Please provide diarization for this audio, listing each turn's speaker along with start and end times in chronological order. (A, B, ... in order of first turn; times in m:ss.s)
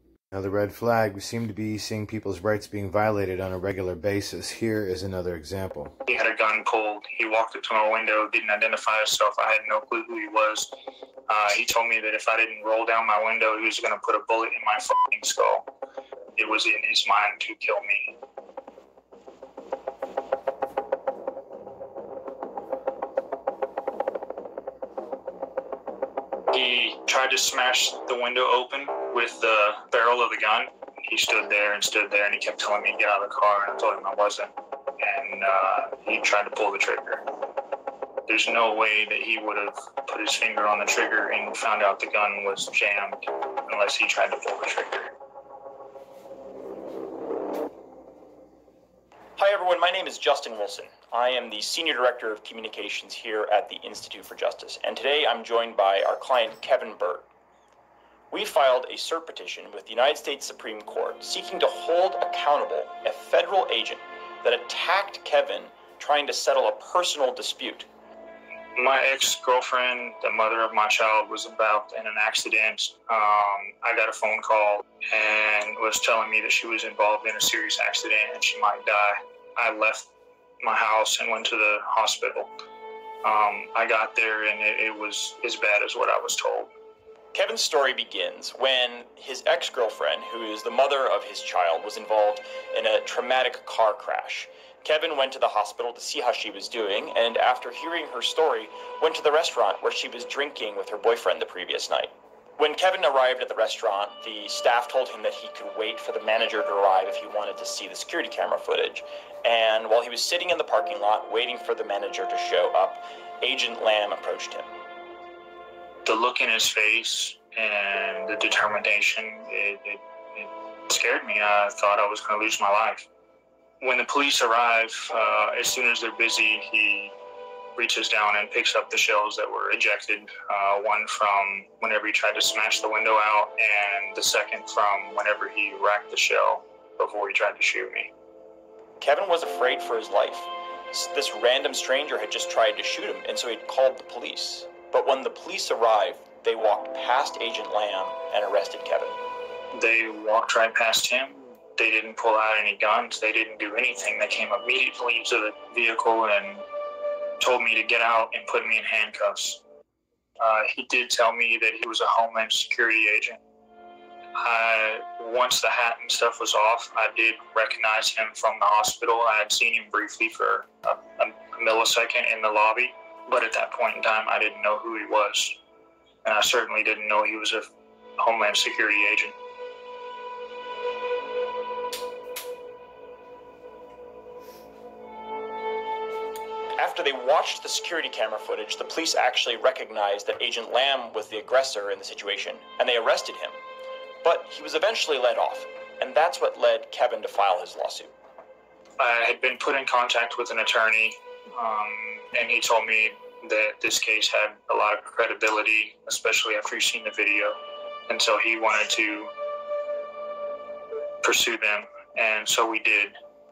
0:00.3-0:05.9 A
0:06.0-0:10.7 B
0:11.3-0:15.7 B
0:16.4-0:18.2 B
0:26.5-0:37.2 B
0:38.3-0:45.1 B
0:49.4-0:57.3 C
0:58.3-1:07.9 C
1:08.8-1:20.1 B
1:20.6-1:22.5 B
1:23.2-1:26.7 B
1:27.3-1:54.7 C
1:56.0-2:03.1 B
2:03.8-2:07.1 B
2:07.8-2:18.1 B
2:19.0-2:29.2 C
2:29.7-2:36.6 B
2:37.4-2:39.6 B
2:40.4-2:43.4 B
2:44.4-2:55.6 B
2:56.2-2:59.3 B
3:06.8-3:13.6 C
3:14.2-3:18.1 C
3:19.0-3:29.3 B
3:31.2-3:33.2 B